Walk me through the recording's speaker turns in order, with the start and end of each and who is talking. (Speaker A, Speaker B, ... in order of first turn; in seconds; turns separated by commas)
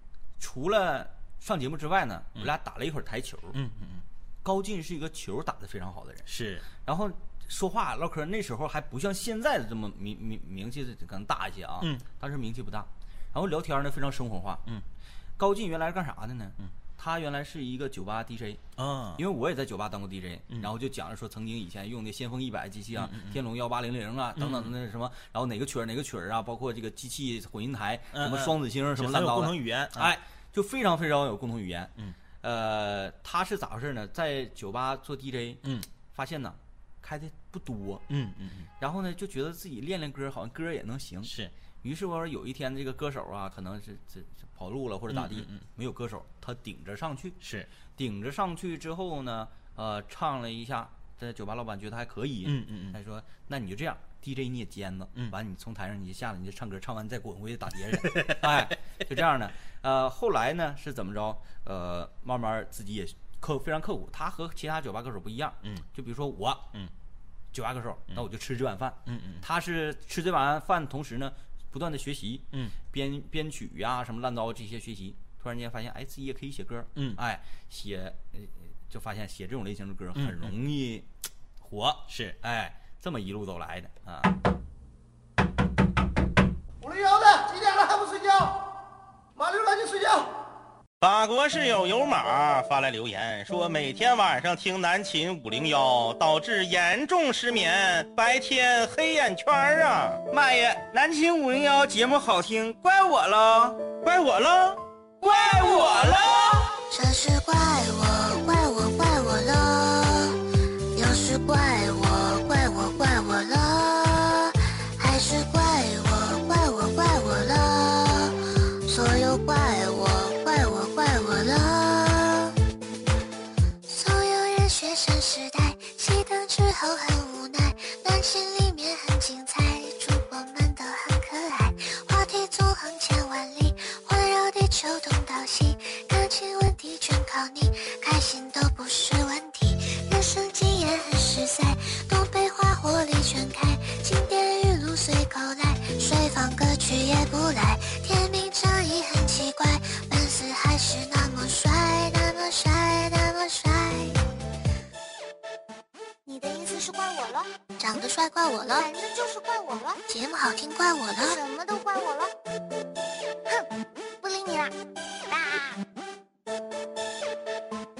Speaker A: 0.4-3.6, Speaker B: 3.5-4.0, Speaker A: 4.4-6.3, Speaker B: 6.2-6.7, Speaker A: 6.8-14.6, Speaker A: 15.4-18.6, Speaker B: 18.8-19.2, Speaker A: 19.1-38.0, Speaker B: 22.9-23.4, Speaker B: 24.4-24.7, Speaker B: 28.1-30.1, Speaker B: 38.1-38.7, Speaker A: 38.8-47.4, Speaker B: 41.2-41.5, Speaker B: 45.1-45.6, Speaker B: 47.4-47.7, Speaker A: 48.0-66.6, Speaker B: 52.4-53.0, Speaker A: 67.5-81.1, Speaker B: 69.0-69.4, Speaker B: 80.2-80.5, Speaker A: 81.6-84.4, Speaker B: 82.1-82.4, Speaker C: 86.8-88.5, Speaker C: 89.4-90.3, Speaker B: 91.0-100.2, Speaker A: 100.3-103.8, Speaker B: 104.1-104.8, Speaker A: 105.5-106.4, Speaker D: 106.9-110.4, Speaker D: 110.9-122.5, Speaker D: 123.9-154.2, Speaker E: 156.2-157.5, Speaker D: 157.8-158.9, Speaker E: 158.7-160.0, Speaker D: 160.1-161.4, Speaker E: 161.3-162.3, Speaker E: 164.2-164.7, Speaker E: 165.3-165.8